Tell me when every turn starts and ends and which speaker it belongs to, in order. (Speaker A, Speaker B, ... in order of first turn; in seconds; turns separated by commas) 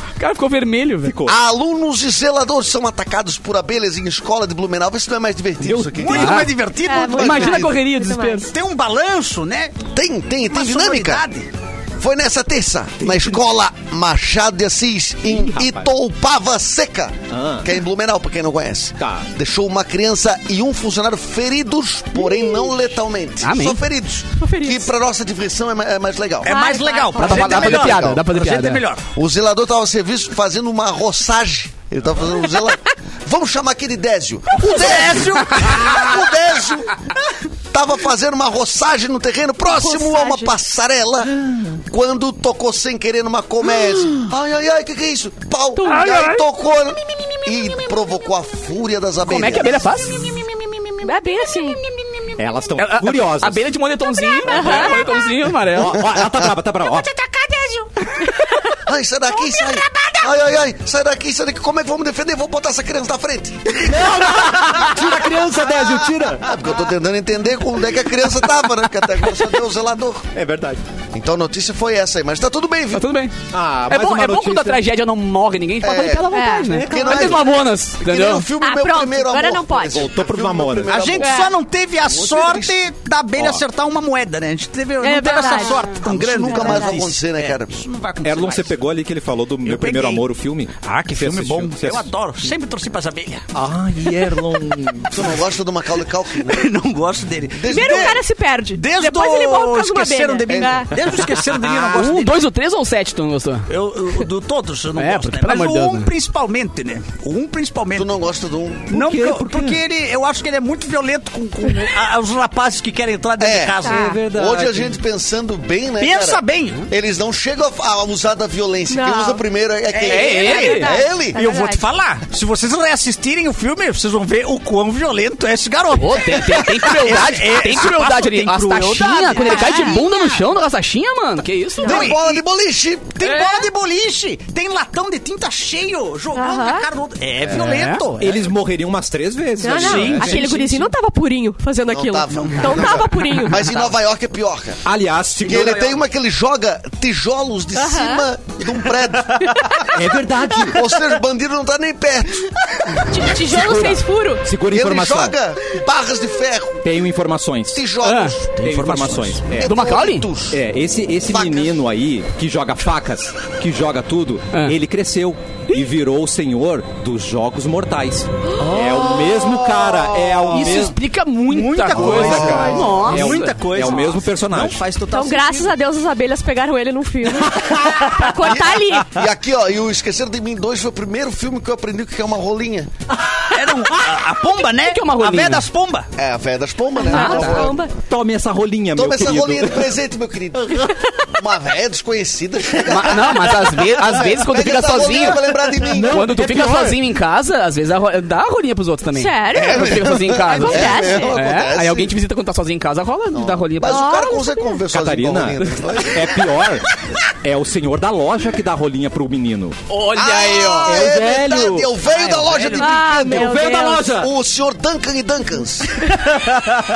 Speaker A: 0.2-1.1, Speaker B: 1.0-1.4, Speaker C: 1.3-6.5, Speaker B: 5.6-6.4, Speaker D: 5.9-7.7, Speaker A: 6.1-6.5, Speaker E: 6.8-8.5, Speaker A: 7.2-8.5, Speaker C: 7.2-7.7, Speaker D: 8.5-9.8, Speaker C: 9.9-11.2, Speaker D: 10.5-11.5, Speaker C: 12.0-26.6, Speaker B: 13.0-13.4, Speaker B: 15.3-15.9, Speaker B: 17.3-17.7, Speaker B: 19.0-19.3, Speaker E: 22.1-22.7, Speaker A: 23.4-23.8, Speaker E: 24.4-24.9, Speaker D: 26.4-29.1, Speaker E: 26.4-27.6, Speaker A: 27.1-28.8, Speaker C: 27.2-28.2, Speaker C: 29.1-37.0, Speaker D: 34.5-36.3, Speaker C: 37.7-49.8, Speaker E: 39.6-40.5, Speaker E: 45.8-46.1, Speaker A: 49.2-50.3, Speaker D: 50.2-51.1, Speaker E: 51.0-51.8, Speaker B: 52.4-53.6, Speaker A: 52.8-56.0, Speaker E: 54.3-55.2, Speaker B: 54.5-54.9, Speaker B: 55.7-57.1, Speaker C: 56.0-56.4, Speaker E: 58.2-58.7, Speaker C: 58.8-63.9, Speaker E: 59.6-60.1, Speaker B: 63.8-66.5, Speaker C: 65.5-70.3, Speaker B: 70.3-70.8, Speaker C: 71.1-73.1, Speaker A: 72.9-73.3, Speaker B: 73.5-74.8, Speaker A: 73.9-78.5, Speaker C: 75.8-76.3, Speaker E: 76.3-77.0, Speaker B: 76.7-77.4, Speaker C: 76.8-81.5, Speaker E: 78.6-80.1, Speaker B: 80.0-81.1, Speaker D: 80.9-88.8, Speaker E: 81.2-81.5, Speaker C: 82.0-82.8, Speaker B: 83.4-83.6, Speaker E: 85.0-85.9, Speaker C: 85.9-87.8, Speaker E: 86.5-86.8, Speaker B: 88.2-92.1, Speaker D: 89.6-90.3, Speaker D: 90.8-93.5, Speaker B: 93.5-95.3, Speaker C: 95.1-96.7, Speaker D: 96.3-98.2, Speaker C: 97.5-98.2, Speaker E: 97.7-100.9, Speaker D: 98.7-102.5, Speaker C: 100.5-100.9, Speaker B: 101.5-101.9, Speaker A: 101.9-103.7, Speaker D: 103.7-108.1, Speaker A: 105.0-106.1, Speaker C: 108.0-108.9, Speaker D: 108.9-114.1, Speaker B: 108.9-109.8, Speaker C: 113.4-121.4, Speaker E: 113.8-114.2, Speaker B: 113.9-114.9, Speaker D: 116.0-116.9, Speaker E: 118.9-119.4, Speaker D: 119.9-130.3, Speaker A: 120.0-120.9, Speaker E: 120.1-121.8, Speaker A: 125.9-132.1, Speaker E: 129.4-130.1, Speaker E: 131.8-132.1, Speaker C: 131.8-133.2, Speaker D: 131.8-132.4, Speaker D: 133.1-138.5, Speaker A: 133.2-133.6, Speaker E: 136.3-136.8, Speaker A: 137.5-138.0, Speaker B: 138.2-140.6, Speaker E: 139.6-143.6, Speaker D: 139.7-140.8, Speaker C: 141.9-144.8, Speaker D: 142.3-143.0, Speaker D: 143.5-143.9, Speaker B: 144.8-145.9, Speaker C: 145.4-149.9, Speaker E: 147.8-148.2, Speaker E: 149.4-149.9, Speaker B: 149.9-150.8, Speaker C: 150.6-153.1, Speaker E: 153.0-154.4, Speaker B: 153.4-155.3, Speaker C: 154.7-156.8, Speaker B: 156.8-157.8, Speaker C: 157.7-158.6, Speaker A: 158.0-158.4, Speaker D: 158.6-159.4, Speaker B: 158.6-159.8, Speaker C: 159.5-160.6, Speaker A: 159.6-160.3, Speaker B: 160.5-171.0, Speaker C: 161.3-161.8, Speaker D: 168.7-170.9, Speaker A: 170.5-173.6, Speaker D: 171.5-175.7, Speaker B: 171.9-174.8, Speaker C: 172.0-172.9, Speaker E: 175.1-179.2, Speaker B: 177.5-178.1, Speaker C: 178.4-182.9, Speaker D: 183.5-186.1, Speaker A: 184.8-185.7, Speaker C: 186.2-187.8, Speaker E: 187.0-187.9, Speaker A: 187.1-187.6, Speaker B: 187.2-189.9, Speaker C: 188.9-196.4, Speaker A: 192.8-204.1, Speaker B: 195.8-197.0, Speaker E: 199.1-201.4, Speaker C: 199.5-202.1, Speaker C: 203.3-206.6, Speaker E: 203.8-204.8, Speaker B: 204.9-209.8, Speaker A: 209.9-211.0, Speaker C: 210.2-216.0, Speaker B: 210.8-214.3, Speaker D: 212.1-212.8, Speaker E: 212.8-214.2